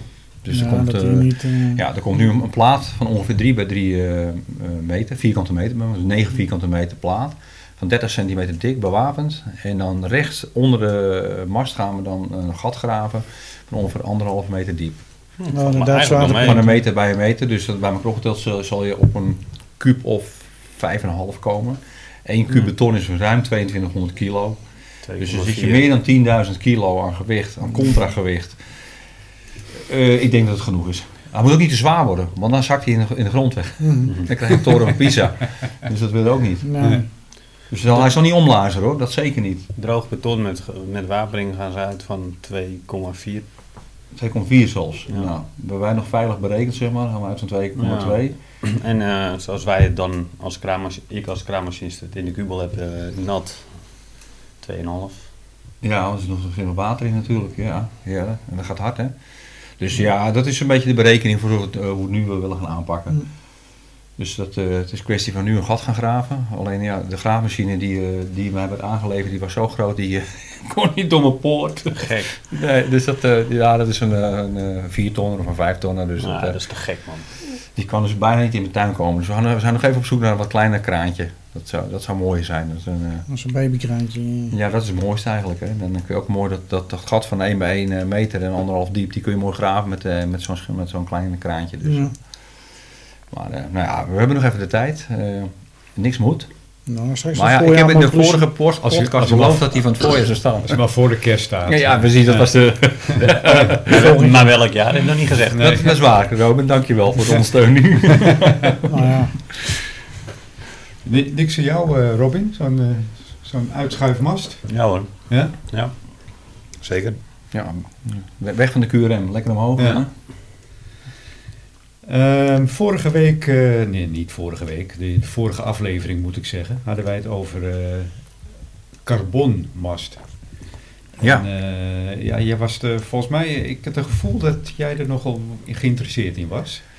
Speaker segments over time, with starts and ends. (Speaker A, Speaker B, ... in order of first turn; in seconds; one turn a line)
Speaker A: 0.4-15.0
Speaker B: 0.5-1.8
Speaker C: 15.4-16.6
Speaker B: 15.5-16.8
Speaker A: 16.2-24.6
Speaker C: 25.1-25.9
Speaker A: 25.2-28.6
Speaker A: 29.8-36.9
Speaker B: 33.8-34.1
Speaker B: 36.6-37.1
Speaker A: 37.7-39.6
Speaker C: 39.8-43.4
Speaker A: 44.1-48.3
Speaker C: 47.8-53.7
Speaker C: 54.6-55.3
Speaker A: 55.8-59.1
Speaker A: 59.8-63.2
Speaker A: 64.2-76.6
Speaker C: 71.9-72.3
Speaker C: 76.2-77.3
Speaker A: 77.5-83.2
Speaker B: 83.3-84.5
Speaker A: 84.5-92.1
Speaker B: 91.8-92.1
Speaker A: 93.3-96.5
Speaker B: 96.9-98.5
Speaker A: 97.3-100.8
Speaker D: 98.8-99.6
Speaker D: 100.7-102.5
Speaker A: 101.7-104.1
Speaker D: 103.1-103.7
Speaker C: 103.4-105.9
Speaker B: 104.0-104.3
Speaker D: 105.5-105.9
Speaker A: 105.6-108.9
Speaker B: 108.9-109.3
Speaker D: 111.0-114.6
Speaker C: 114.7-115.1
Speaker D: 115.3-115.5
Speaker C: 116.8-117.2
Speaker A: 117.5-120.1
Speaker D: 119.8-120.0
Speaker D: 122.0-128.1
Speaker D: 129.0-130.2
Speaker D: 131.2-136.8
Speaker A: 131.2-131.5